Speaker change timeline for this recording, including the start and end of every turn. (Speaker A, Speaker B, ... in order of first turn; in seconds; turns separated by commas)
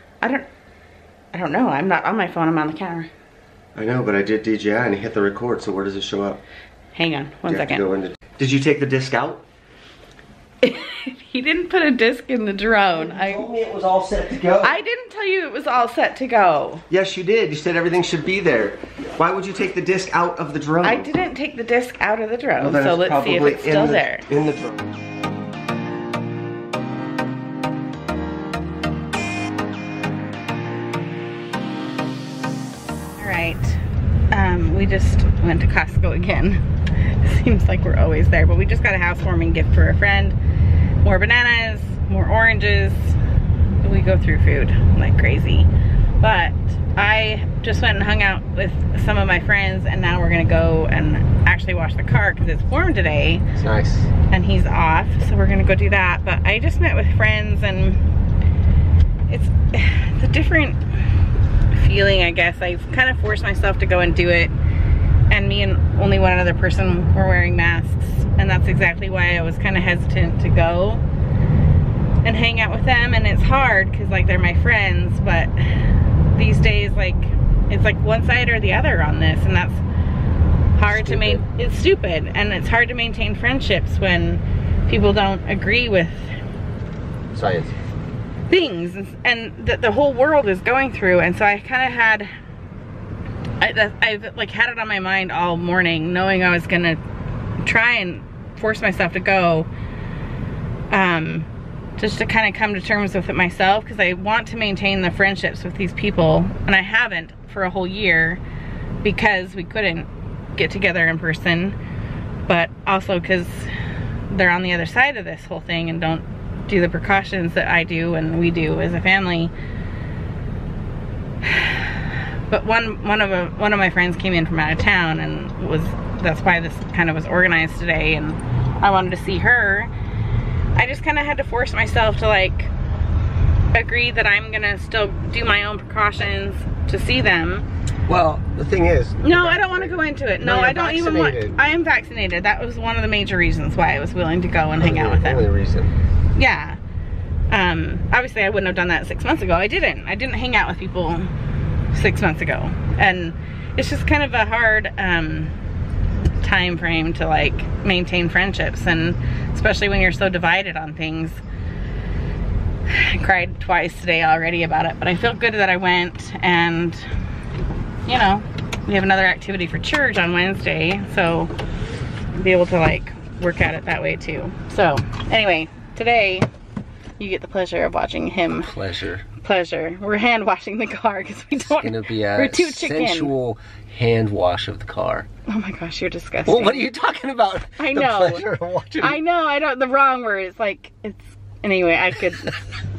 Speaker A: 0.2-0.5, Speaker A: 1.3-3.1, Speaker B: 3.8-6.4, Speaker A: 7.0-7.8, Speaker B: 7.5-9.4, Speaker A: 10.6-13.5, Speaker B: 12.9-14.7, Speaker A: 14.6-16.9, Speaker B: 16.9-21.1, Speaker A: 20.8-24.3, Speaker B: 22.6-24.9, Speaker A: 33.2-40.4, Speaker A: 41.0-43.2, Speaker A: 43.8-45.7, Speaker A: 46.2-53.5, Speaker B: 53.5-54.1, Speaker A: 54.3-58.0, Speaker A: 59.3-60.8, Speaker A: 61.7-64.5, Speaker A: 65.3-71.0, Speaker A: 72.2-79.8, Speaker A: 80.8-86.3, Speaker B: 80.8-81.5, Speaker B: 87.3-87.8, Speaker A: 88.5-92.3, Speaker A: 93.6-97.0, Speaker A: 97.6-99.7, Speaker A: 100.9-108.4, Speaker A: 109.0-111.8, Speaker A: 112.5-113.7, Speaker A: 114.3-119.5, Speaker A: 121.4-129.9, Speaker A: 130.8-132.7, Speaker A: 133.7-137.7, Speaker B: 138.1-141.6, Speaker A: 139.2-145.4, Speaker B: 144.8-145.9, Speaker A: 146.3-146.8, Speaker A: 147.5-151.3, Speaker A: 151.9-155.5, Speaker A: 156.4-161.4, Speaker A: 162.9-167.1, Speaker A: 168.1-171.5, Speaker A: 172.3-176.5, Speaker A: 177.2-178.8, Speaker B: 178.7-179.2, Speaker A: 179.3-183.3, Speaker B: 181.8-185.3, Speaker A: 185.5-186.9, Speaker B: 186.5-189.2, Speaker A: 187.8-192.8